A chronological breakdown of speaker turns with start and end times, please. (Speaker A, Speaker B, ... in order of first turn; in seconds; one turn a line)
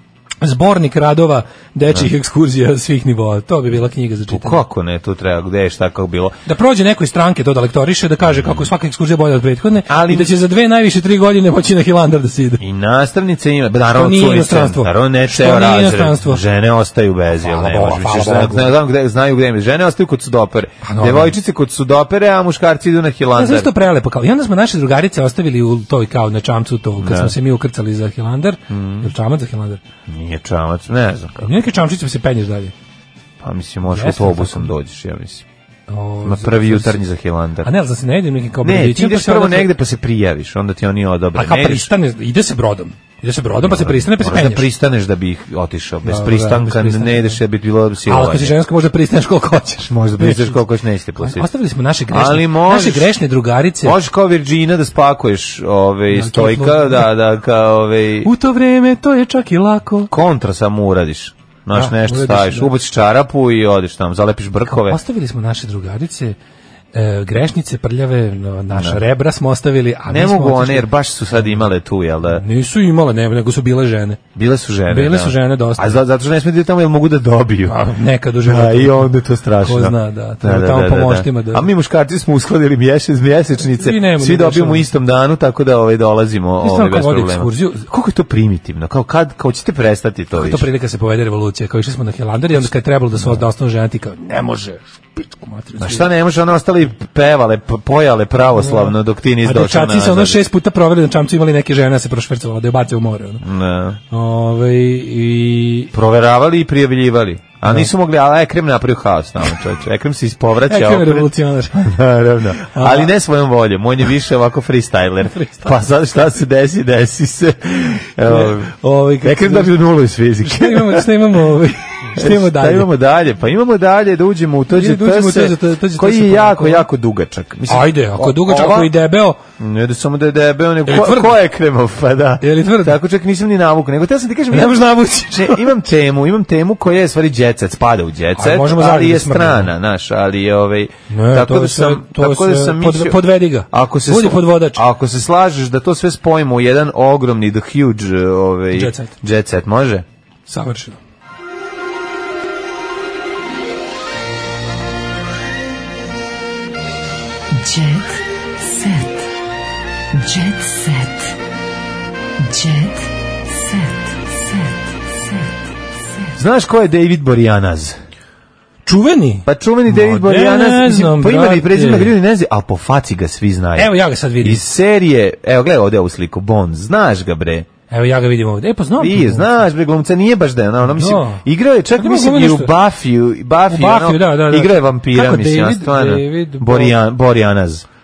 Speaker A: 0.4-4.6
Speaker B: 4.3-6.3
Speaker A: 6.5-12.6
Speaker B: 8.3-8.7
Speaker B: 9.9-10.3
Speaker B: 12.6-23.7
Speaker A: 13.9-16.4
Speaker A: 17.4-18.7
Speaker A: 20.8-21.4
Speaker A: 23.3-29.8
Speaker B: 27.0-27.3
Speaker B: 28.7-29.1
Speaker B: 30.1-31.5
Speaker A: 31.4-32.7
Speaker B: 33.4-35.5
Speaker A: 33.9-34.7
Speaker A: 35.9-37.0
Speaker B: 36.2-37.7
Speaker A: 37.6-39.7
Speaker B: 38.6-41.9
Speaker A: 41.3-44.6
Speaker B: 43.6-48.5
Speaker A: 46.0-47.4
Speaker A: 48.0-50.6
Speaker B: 49.8-51.5
Speaker A: 51.2-54.0
Speaker B: 52.1-53.1
Speaker B: 53.8-58.3
Speaker A: 56.1-57.1
Speaker A: 58.2-60.1
Speaker B: 60.1-65.0
Speaker A: 61.7-62.7
Speaker A: 64.7-66.4
Speaker A: 66.9-70.9
Speaker B: 68.7-69.0
Speaker B: 70.1-72.4
Speaker A: 72.3-74.2
Speaker B: 74.3-77.8
Speaker A: 74.9-76.0
Speaker A: 77.7-81.7
Speaker B: 78.4-90.7
Speaker A: 83.8-84.9
Speaker A: 86.6-87.8
Speaker A: 90.3-96.0
Speaker B: 92.5-93.4
Speaker B: 95.8-100.4
Speaker A: 98.6-103.4
Speaker B: 103.4-104.0
Speaker A: 104.1-105.9
Speaker B: 105.9-121.3
Speaker A: 110.7-112.0
Speaker A: 112.6-113.1
Speaker A: 115.3-115.7
Speaker A: 118.2-119.7
Speaker A: 120.4-122.9
Speaker B: 122.1-128.9
Speaker A: 124.7-126.8
Speaker A: 127.7-129.4
Speaker B: 129.6-150.1
Speaker A: 130.8-131.3
Speaker A: 132.4-133.0
Speaker A: 134.5-135.7
Speaker A: 138.3-139.7
Speaker A: 141.1-144.8
Speaker A: 148.7-149.1
Speaker A: 150.5-151.0
Speaker C: 157.6-159.0
Speaker C: 160.2-161.2
Speaker C: 162.4-163.9
Speaker B: 166.3-168.0
Speaker A: 168.8-172.1
Speaker B: 169.4-177.7
Speaker A: 173.8-174.6
Speaker A: 177.9-179.5
Speaker B: 179.0-187.8
Speaker A: 180.9-181.4
Speaker A: 181.9-182.7
Speaker A: 183.7-186.9